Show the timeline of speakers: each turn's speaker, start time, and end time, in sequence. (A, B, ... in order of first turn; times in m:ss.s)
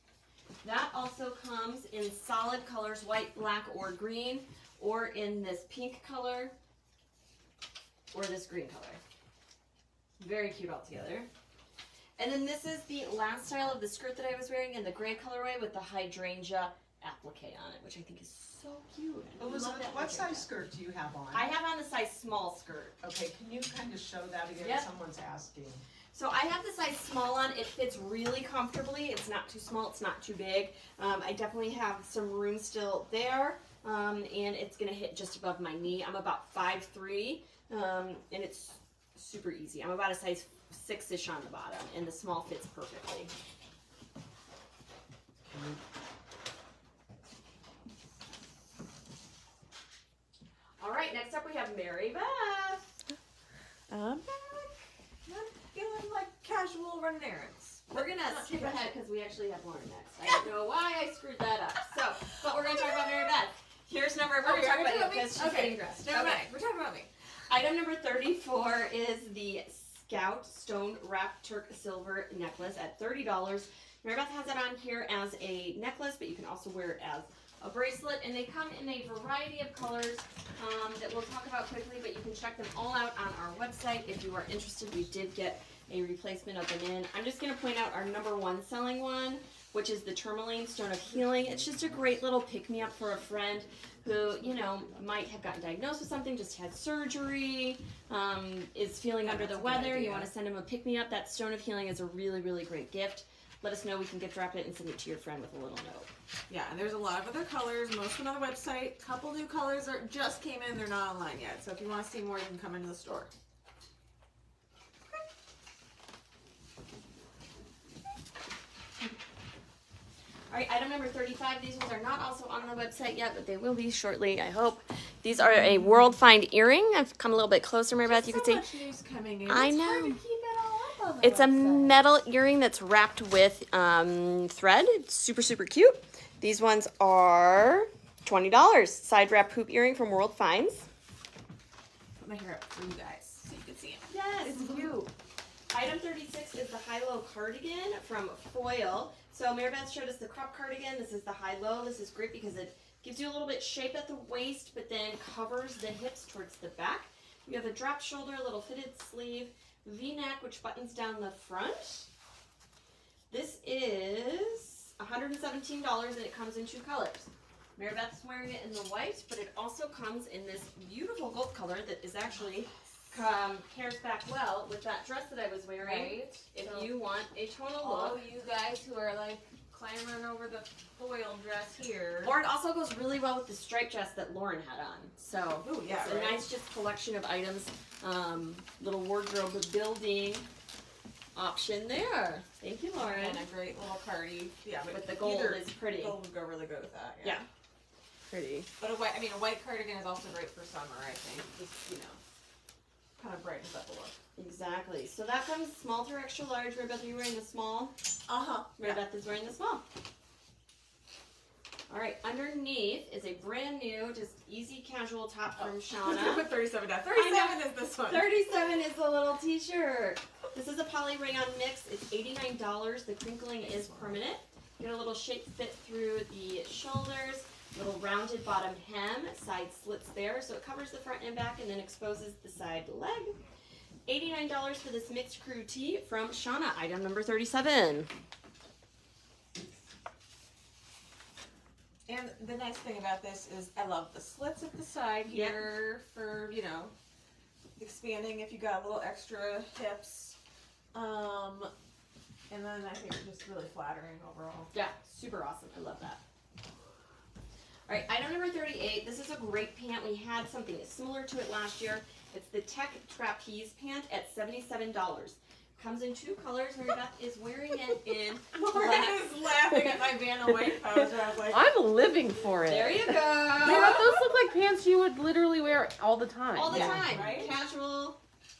0:00.6-0:06.5 A
0:08.1-0:09.0 A
0:10.2-0:11.3 A
0:12.2-0:20.5 A
0:19.4-0:21.5 B
0:21.3-0:23.0 A
0:23.0-0:25.8 B
0:24.6-0:24.9 A
0:26.1-0:43.3 A
0:45.4-0:45.8 B
0:50.8-0:52.9 A
0:53.9-0:58.9 C
0:57.9-1:06.5 A
1:02.8-1:03.2 C
1:04.4-1:07.1 C
1:07.5-1:46.1 A
1:39.2-1:40.3 C
1:46.5-1:53.3 C
2:00.5-2:08.6 A
2:08.0-2:12.0 C
2:09.5-2:10.2 A
2:11.2-2:20.9 A
2:22.2-2:25.0 C
2:24.1-2:24.9 A
2:25.7-2:42.1 A
2:43.3-2:58.2 A
2:55.8-2:56.9 C
2:57.8-3:02.3 C
3:02.2-3:10.5 A
3:05.6-3:06.4 C
3:11.3-3:13.4 A
3:13.0-3:17.4 C
3:14.9-3:16.2 A
3:18.3-3:22.2 C
3:23.2-3:24.2 C
3:24.4-3:27.9 A
3:28.3-3:29.0 C
3:28.8-3:29.8 A
3:31.9-3:36.5 A
3:35.6-3:38.5 C
3:37.1-3:53.4 A
3:43.6-3:44.2 C
3:54.1-3:58.1 A
4:02.0-4:06.9 C
4:05.3-4:06.0 A
4:07.8-4:10.4 C
4:10.9-4:11.7 C
4:12.5-4:14.7 C
4:14.7-4:16.2 A
4:17.9-4:29.4 A
4:28.5-4:31.7 C
4:29.7-4:37.1 D
4:32.6-4:34.1 A
4:33.6-4:34.1 C
4:36.5-4:38.2 A
4:36.7-4:37.6 C
4:36.7-4:37.6 B